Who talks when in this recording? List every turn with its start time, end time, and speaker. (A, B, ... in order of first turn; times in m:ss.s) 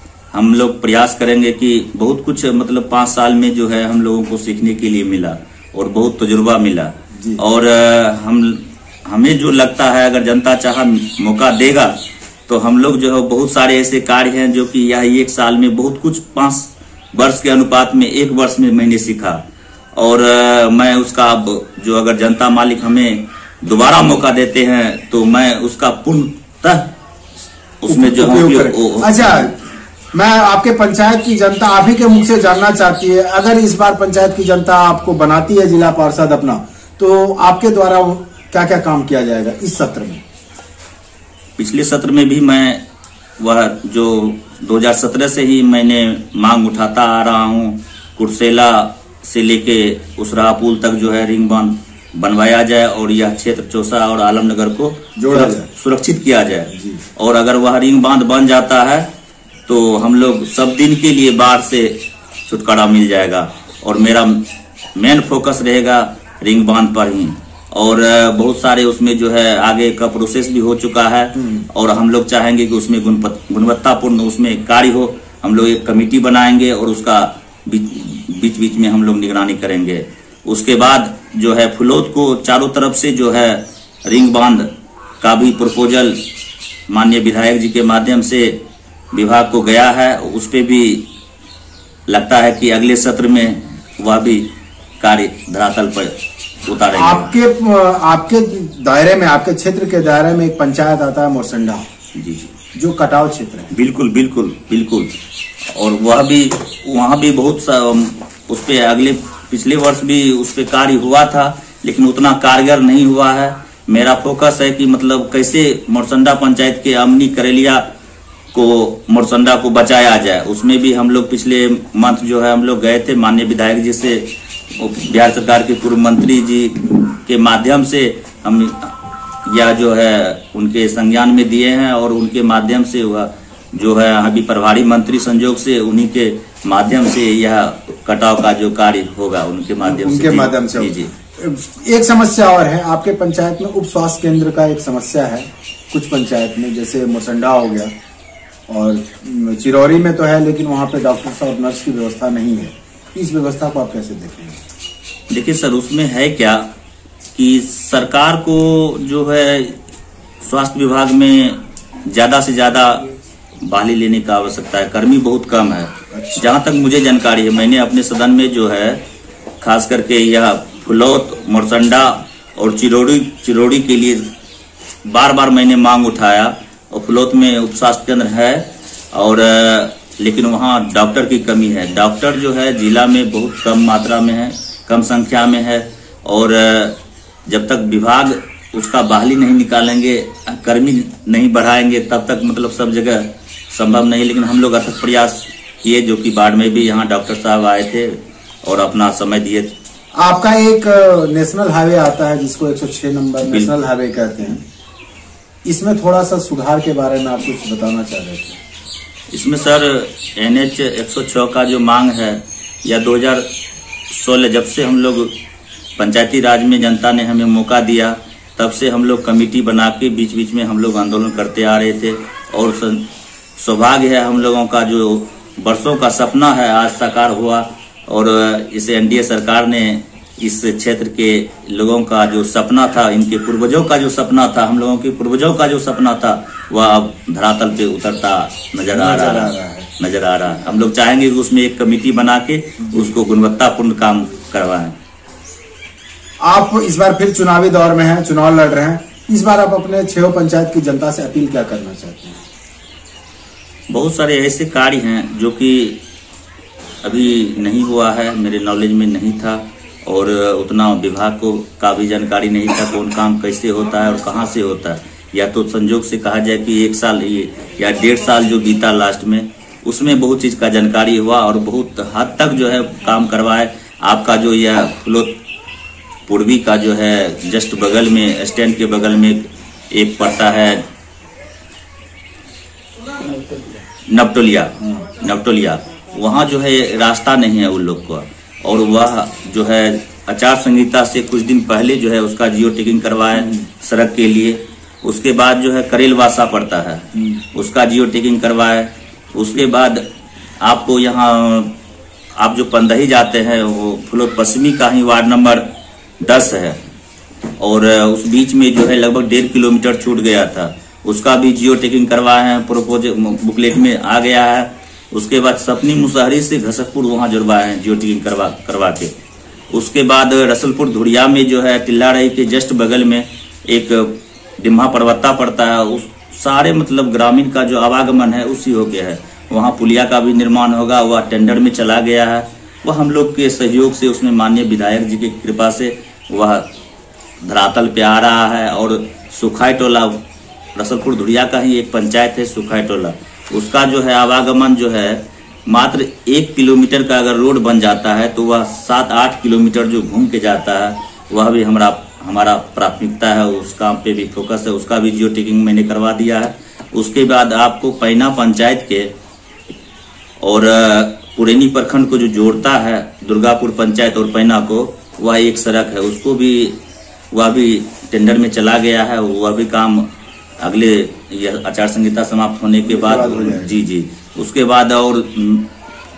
0:00.3-0:11.9 A
0:12.5-0:19.4 A
0:20.0-0:26.9 A
0:27.8-0:29.5 A
0:27.9-0:29.5 B
0:30.1-0:40.2 B
0:41.6-0:42.8 A
0:43.4-0:59.1 A
0:55.2-0:55.7 B
0:56.7-0:57.0 B
0:59.7-1:04.4 A
1:05.0-1:24.7 A
1:11.4-1:11.6 B
1:25.2-1:26.2 A
1:26.9-1:28.6 A
1:29.1-1:31.0 A
1:32.1-1:34.5 A
1:35.0-1:36.2 A
1:36.7-1:37.3 A
1:36.9-1:41.8 B
1:42.2-1:42.5 A
1:42.8-1:43.7 B
1:43.7-1:45.1 A
1:45.7-1:57.8 A
1:58.5-2:08.9 A
2:09.5-2:21.1 A
2:19.8-2:27.9 B
2:28.7-2:34.6 B
2:35.3-2:36.6 A
2:37.3-2:39.8 A
2:40.4-2:43.0 A
2:43.6-2:49.0 A
2:46.1-2:46.5 B
2:49.6-2:54.2 A
2:55.0-3:07.0 A
3:07.5-3:19.7 A
3:20.2-3:24.6 B
3:23.5-3:23.7 A
3:25.6-3:28.6 B
3:29.3-3:33.5 A
3:34.1-3:35.3 A
3:36.0-3:43.0 A
3:43.6-4:05.0 A
3:58.9-3:59.9 B
4:02.8-4:03.1 B
4:06.4-4:12.4 B
4:13.9-4:16.0 A
4:17.0-4:35.4 A
4:36.3-4:40.8 A
4:44.1-5:00.0 A
4:53.4-4:53.6 B
5:00.6-5:01.7 A
5:02.4-5:05.6 A
5:06.2-5:06.8 A
5:07.6-5:19.1 A
5:19.7-5:36.7 A
5:37.4-5:40.2 A
5:40.8-5:59.1 A
6:00.4-6:06.8 A
6:07.3-6:10.0 A
6:10.6-6:15.6 A
6:12.8-6:13.8 B